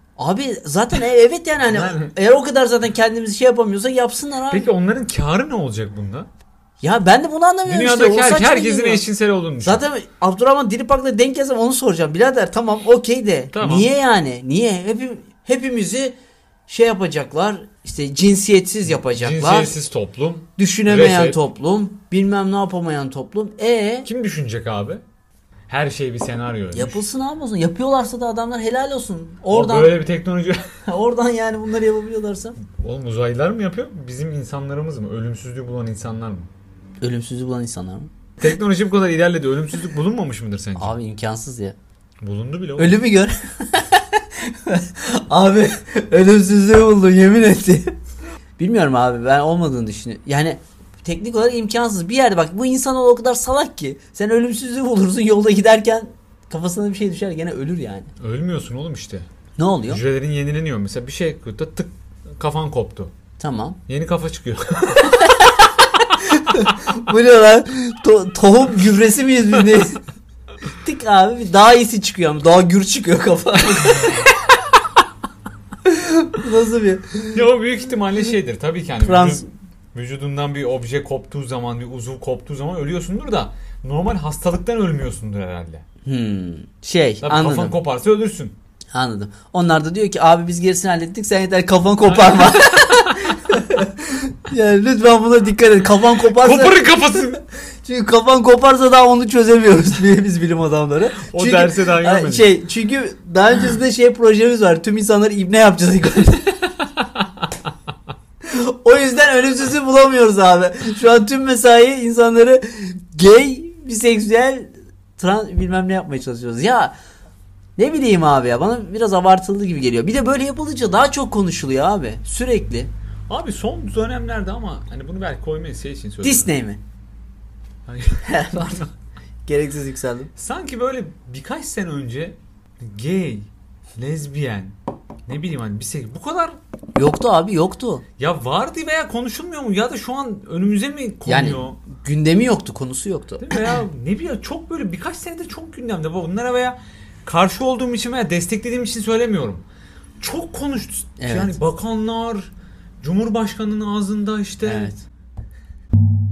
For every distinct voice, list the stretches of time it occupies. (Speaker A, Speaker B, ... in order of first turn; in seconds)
Speaker A: 0.2-4.7, 6.8-9.0, 9.6-16.1, 16.7-19.7, 20.6-24.1, 26.7-30.0, 30.9-32.6, 37.0-38.1, 40.8-41.8, 42.8-47.9, 48.6-58.1, 59.6-60.0, 63.4-63.8, 65.0-70.0, 70.8-74.3, 75.8-77.4, 79.0-79.5, 86.0-87.8, 88.9-97.3, 97.8-106.8, 108.5-117.0, 117.8-122.9, 126.2-126.8, 128.2-128.9, 129.5-130.3, 137.0-138.0, 141.3-143.7, 151.2-151.6, 154.6-155.0
Speaker B: 1.7-2.1, 4.5-6.3, 7.7-9.8, 13.5-13.9, 19.0-21.4, 24.1-25.0, 25.7-27.0, 29.5-30.6, 32.7-36.5, 38.4-41.0, 42.2-43.0, 58.2-59.3, 59.9-63.1, 63.9-65.2, 77.3-85.8, 87.2-88.6, 92.1-93.3, 96.3-97.4, 101.2-102.5, 123.3-126.5, 127.9-128.8, 130.4-134.8, 135.3-136.6, 138.2-141.8, 143.4-149.7, 150.2-154.9